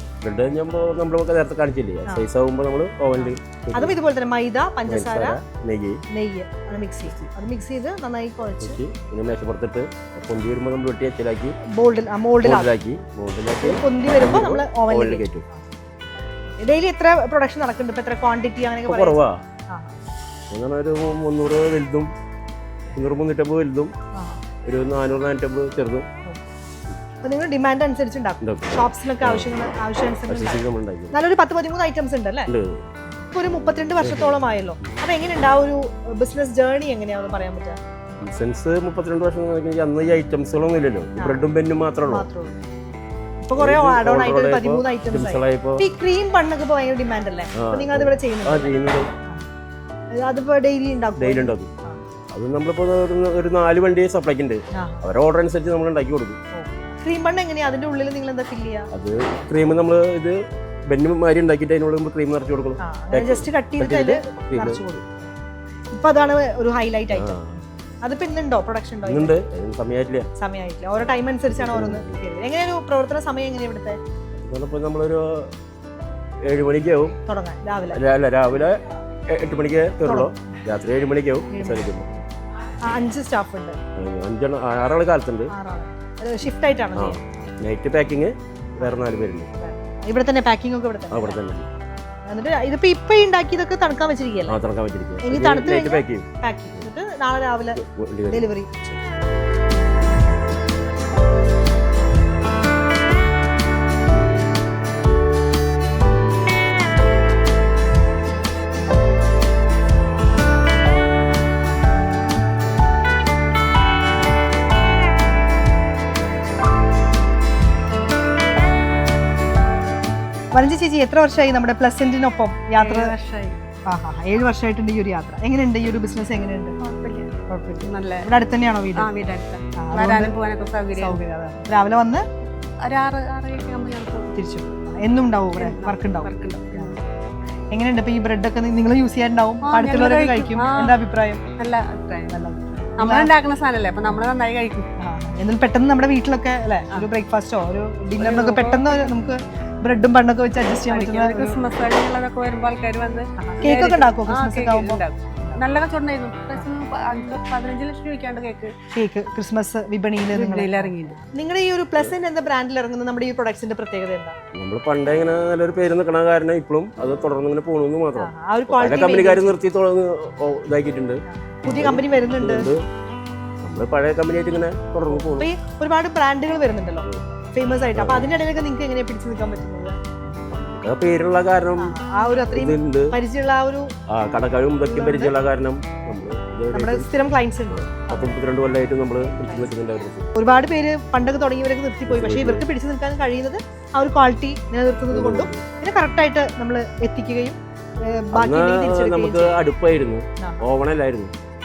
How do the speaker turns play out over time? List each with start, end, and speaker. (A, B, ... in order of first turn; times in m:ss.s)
0:00.2-0:04.0 A
0:03.2-0:05.4 B
0:04.9-0:06.0 A
0:06.1-0:08.8 B
0:08.6-0:11.6 A
0:11.7-0:12.7 B
0:12.4-0:15.4 A
0:13.6-0:15.6 B
0:16.6-0:20.0 B
0:18.8-0:19.4 A
0:20.5-0:22.1 A
0:22.9-0:23.9 A
0:24.1-0:24.4 B
0:24.6-0:26.1 A
0:27.2-0:32.5 B
0:28.4-0:29.6 A
0:30.3-0:31.2 A
0:32.5-0:32.8 A
0:33.2-0:37.8 B
0:34.0-0:34.9 A
0:38.2-0:42.3 A
0:41.2-0:41.4 B
0:42.1-0:42.6 B
0:43.4-0:49.4 B
0:43.6-0:45.8 A
0:47.5-0:49.1 A
0:50.2-0:52.0 B
0:51.2-0:51.7 A
0:52.3-0:56.4 A
0:54.8-0:55.0 B
0:56.5-0:58.9 B
0:58.9-1:04.9 A
1:02.8-1:05.2 B
1:05.9-1:09.3 B
1:07.1-1:07.6 A
1:09.0-1:10.3 A
1:10.4-1:14.0 B
1:11.5-1:12.2 A
1:14.4-1:15.5 A
1:16.4-1:17.2 A
1:17.2-1:18.0 B
1:17.9-1:18.8 A
1:19.3-1:22.1 A
1:20.0-1:20.4 B
1:21.5-1:22.2 B
1:22.8-1:23.8 B
1:24.0-1:25.5 A
1:25.5-1:27.2 B
1:26.9-1:29.5 A
1:29.6-1:31.4 B
1:31.1-1:31.7 A
1:32.2-1:34.6 B
1:34.5-1:36.3 A
1:35.2-1:39.1 B
1:37.8-1:38.5 A
2:00.5-2:03.1 B
2:02.8-2:03.6 C
2:03.9-2:06.8 B
2:06.8-2:07.3 C
2:07.5-2:09.1 B
2:07.8-2:08.3 C
2:08.9-2:11.2 C
2:09.7-2:10.4 B
2:10.9-2:12.2 B
2:12.8-2:14.3 C
2:14.3-2:17.0 B
2:15.6-2:17.0 C
2:17.7-2:21.4 B
2:19.6-2:21.0 C
2:21.6-2:22.3 C
2:22.3-2:23.3 B
2:23.0-2:24.9 C
2:25.0-2:31.6 B
2:28.2-2:29.0 C
2:30.9-2:38.8 C
2:33.4-2:35.6 B
2:38.9-2:44.4 B
2:40.3-2:41.2 C
2:44.5-2:52.8 A
2:48.2-2:49.6 B
2:51.2-2:52.7 B
2:53.6-2:55.5 A
2:55.1-3:00.0 B
2:58.0-2:58.3 A
3:00.5-3:02.0 A
3:01.8-3:03.9 B
3:02.5-3:03.1 A
3:04.1-3:07.1 A
3:04.8-3:05.3 B
3:06.7-3:08.4 B
3:07.7-3:10.3 A
3:09.4-3:09.7 B
3:10.3-3:19.6 B
3:12.1-3:12.7 A
3:15.0-3:15.6 A
3:18.3-3:21.3 A
3:20.4-3:20.6 B